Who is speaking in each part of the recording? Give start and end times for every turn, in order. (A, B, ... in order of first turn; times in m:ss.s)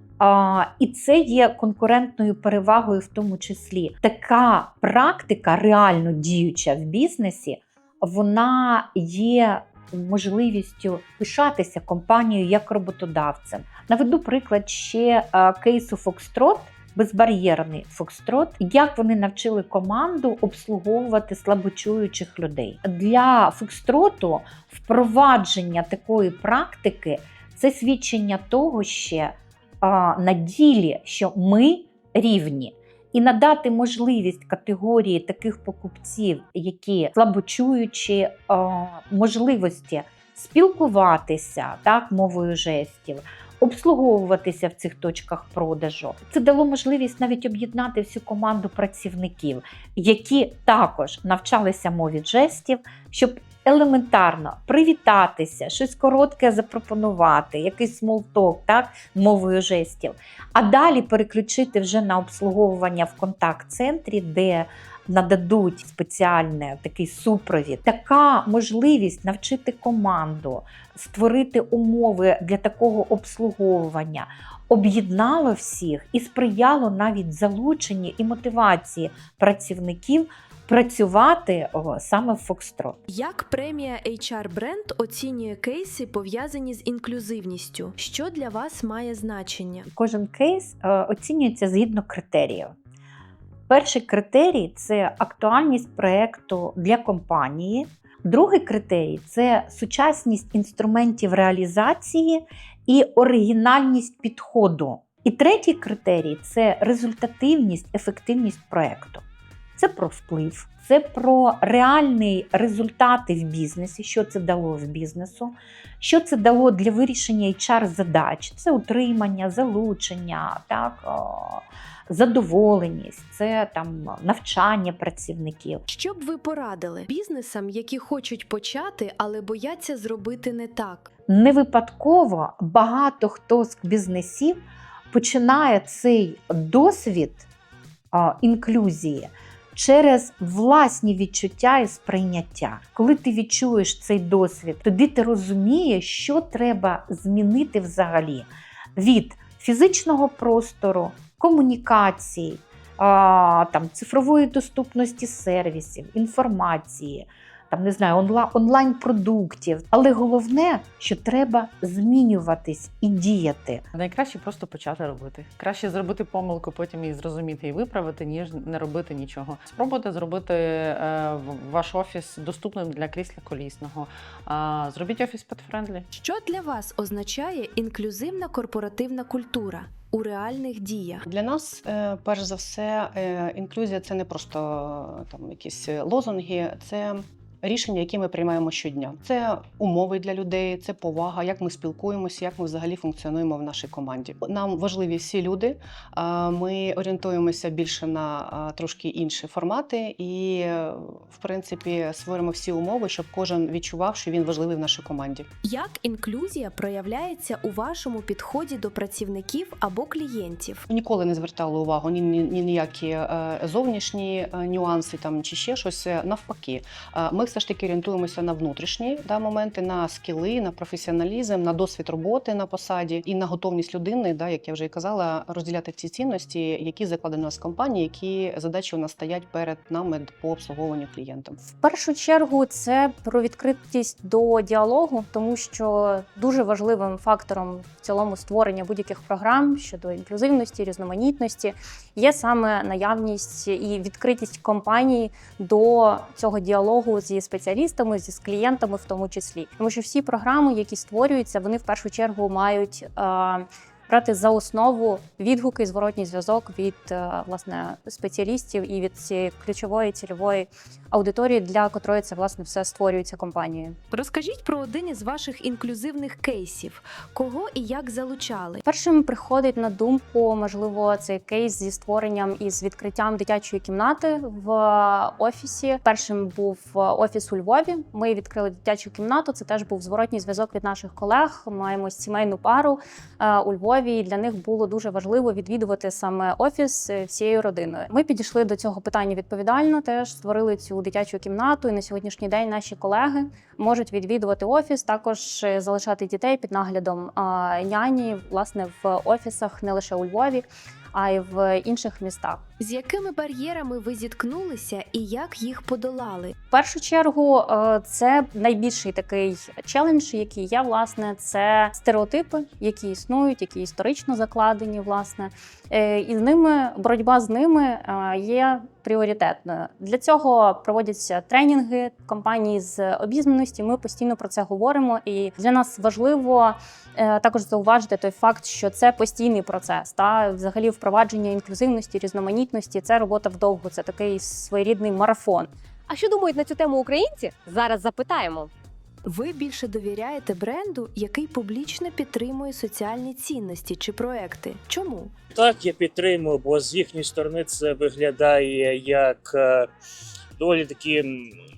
0:00.2-1:23.0 A
1:23.1-1:29.9 B
1:29.9-1:32.7 A
1:33.7-1:49.2 A
1:49.8-2:05.8 A
2:05.9-2:11.1 B
2:11.3-2:17.5 A
2:18.1-2:43.8 A
2:43.9-2:56.1 C
2:56.2-3:01.2 B
3:01.3-3:25.5 D
3:25.6-3:30.8 B
3:30.9-3:51.6 D
3:51.7-4:24.0 E
4:24.1-4:28.8 B
4:28.8-5:02.6 E
5:02.8-5:06.5 B
5:06.7-5:35.7 E
5:36.1-5:38.7 F
5:39.2-5:45.3 B
5:45.5-5:49.9 G
5:50.6-5:51.5 G